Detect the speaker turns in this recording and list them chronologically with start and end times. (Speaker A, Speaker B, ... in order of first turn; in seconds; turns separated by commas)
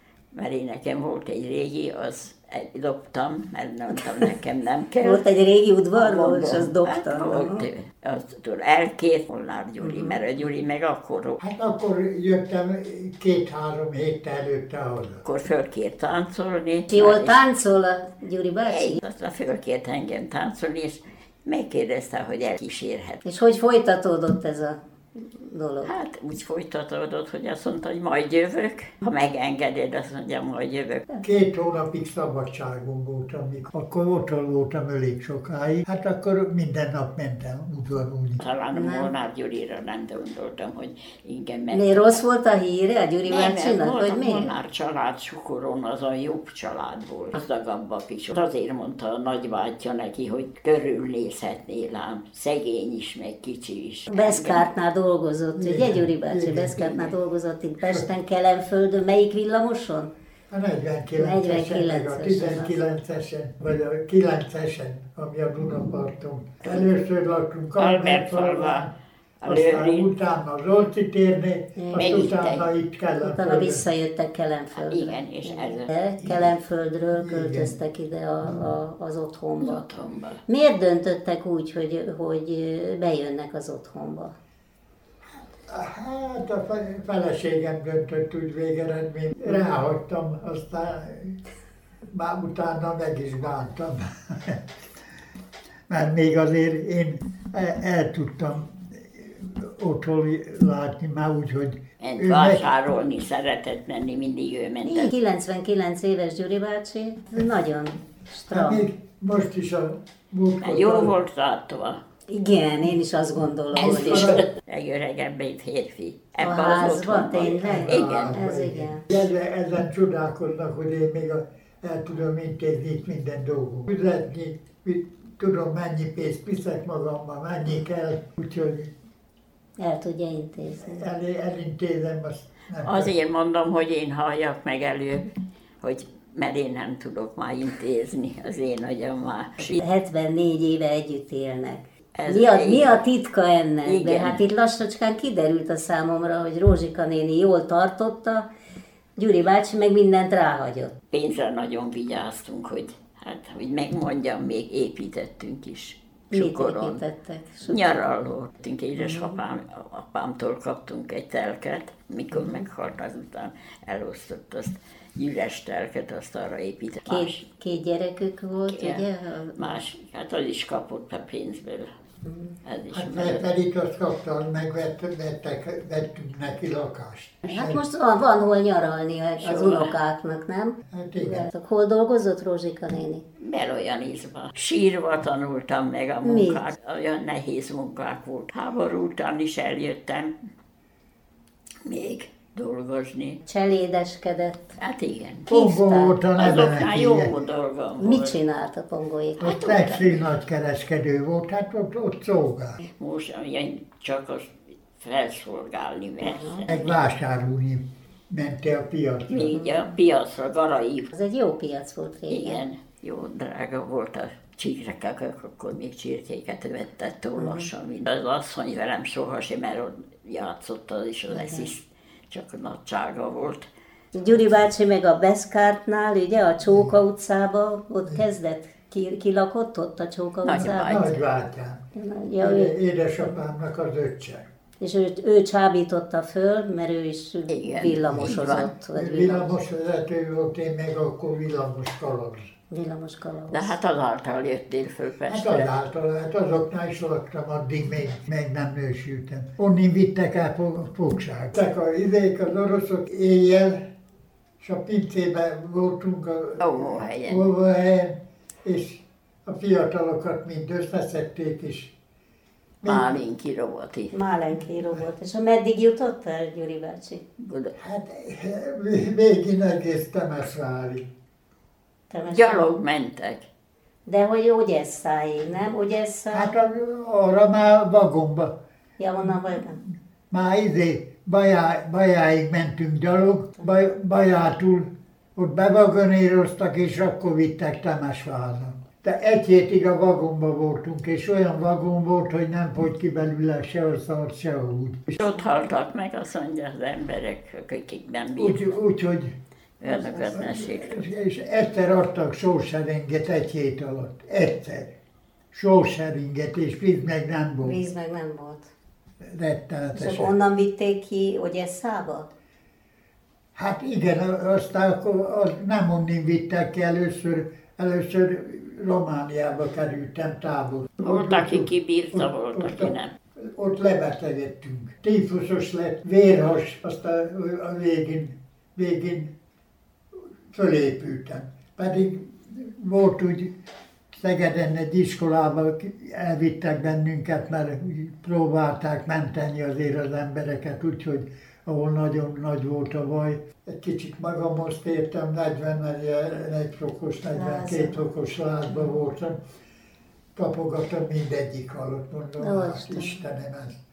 Speaker A: 0.3-5.2, Speaker B: 5.0-7.7, Speaker A: 5.9-11.4, Speaker B: 9.8-10.2, Speaker C: 11.4-15.2, Speaker A: 15.2-17.4, Speaker B: 16.9-19.0, Speaker A: 18.6-23.2, Speaker B: 23.2-25.9, Speaker A: 25.8-31.1, Speaker C: 31.2-38.4, Speaker A: 38.4-42.2, Speaker B: 38.7-39.1, Speaker B: 41.7-44.5, Speaker A: 43.2-54.7, Speaker B: 54.1-60.1, Speaker C: 55.6-57.2, Speaker C: 57.8-58.1, Speaker C: 60.5-68.9, Speaker B: 61.2-62.8, Speaker A: 67.8-70.1, Speaker C: 69.5-73.8, Speaker B: 71.8-72.2, Speaker A: 71.9-72.7, Speaker B: 73.2-79.9, Speaker A: 74.8-75.9, Speaker C: 76.2-76.5, Speaker C: 77.1-77.8, Speaker A: 79.6-80.4, Speaker B: 80.5-84.3, Speaker C: 85.7-91.4, Speaker C: 92.1-94.6, Speaker C: 95.9-102.7, Speaker A: 102.0-105.1, Speaker B: 104.8-108.8, Speaker C: 108.5-111.2, Speaker A: 110.6-112.0, Speaker B: 112.3-114.4, Speaker C: 113.8-114.5, Speaker A: 113.8-118.4, Speaker B: 116.4-119.0, Speaker C: 117.6-128.9, Speaker B: 129.8-131.0, Speaker C: 130.8-133.2, Speaker A: 132.8-135.3, Speaker A: 135.8-139.8, Speaker B: 139.7-148.5, Speaker A: 142.2-143.0, Speaker A: 143.8-144.4, Speaker B: 149.2-150.9, Speaker A: 151.1-157.0, Speaker B: 156.3-157.9, Speaker A: 157.7-167.4, Speaker B: 159.0-159.3, Speaker B: 167.1-169.8, Speaker A: 168.7-169.0, Speaker A: 169.6-171.9, Speaker B: 172.2-172.6, Speaker A: 172.7-173.5, Speaker C: 172.9-177.8, Speaker B: 177.5-183.2, Speaker A: 179.4-179.9, Speaker C: 180.9-181.5, Speaker A: 183.4-190.3, Speaker B: 186.2-186.6, Speaker A: 191.8-193.4, Speaker B: 193.4-194.8, Speaker A: 194.8-195.5, Speaker C: 195.5-197.3, Speaker B: 195.5-196.2, Speaker A: 196.4-198.3, Speaker B: 198.0-200.1, Speaker C: 199.4-202.8, Speaker A: 203.0-206.9, Speaker B: 206.2-206.7, Speaker C: 206.7-209.5, Speaker A: 209.3-211.1, Speaker B: 211.1-212.6, Speaker A: 212.3-223.7, Speaker B: 217.4-217.7, Speaker B: 221.3-221.7, Speaker B: 224.1-231.2, Speaker C: 226.6-226.9, Speaker A: 230.4-231.1, Speaker C: 230.6-231.8, Speaker B: 231.9-232.7, Speaker C: 232.4-234.4, Speaker B: 234.8-239.6, Speaker A: 237.5-238.7, Speaker C: 237.9-242.4, Speaker B: 242.7-243.8, Speaker A: 243.5-245.7, Speaker C: 245.3-253.9, Speaker C: 254.6-261.9, Speaker A: 256.6-257.5, Speaker C: 262.8-263.1, Speaker A: 262.8-264.1, Speaker B: 264.1-267.2, Speaker A: 267.4-267.7, Speaker C: 267.8-271.1, Speaker B: 272.1-272.8, Speaker A: 272.2-273.4, Speaker B: 274.1-276.5, Speaker C: 276.3-278.6, Speaker B: 279.0-279.8, Speaker C: 279.2-279.6, Speaker C: 280.3-295.2, Speaker A: 295.2-298.6, Speaker C: 298.4-299.4, Speaker A: 299.8-301.0, Speaker B: 300.0-300.4, Speaker C: 300.3-304.9, Speaker C: 305.5-307.8, Speaker B: 307.6-308.7, Speaker C: 309.2-310.3, Speaker B: 309.9-312.3, Speaker C: 313.6-329.3, Speaker A: 321.0-323.1, Speaker C: 330.5-333.6, Speaker C: 334.1-349.4, Speaker B: 347.3-348.0, Speaker C: 350.4-353.8, Speaker B: 352.4-353.2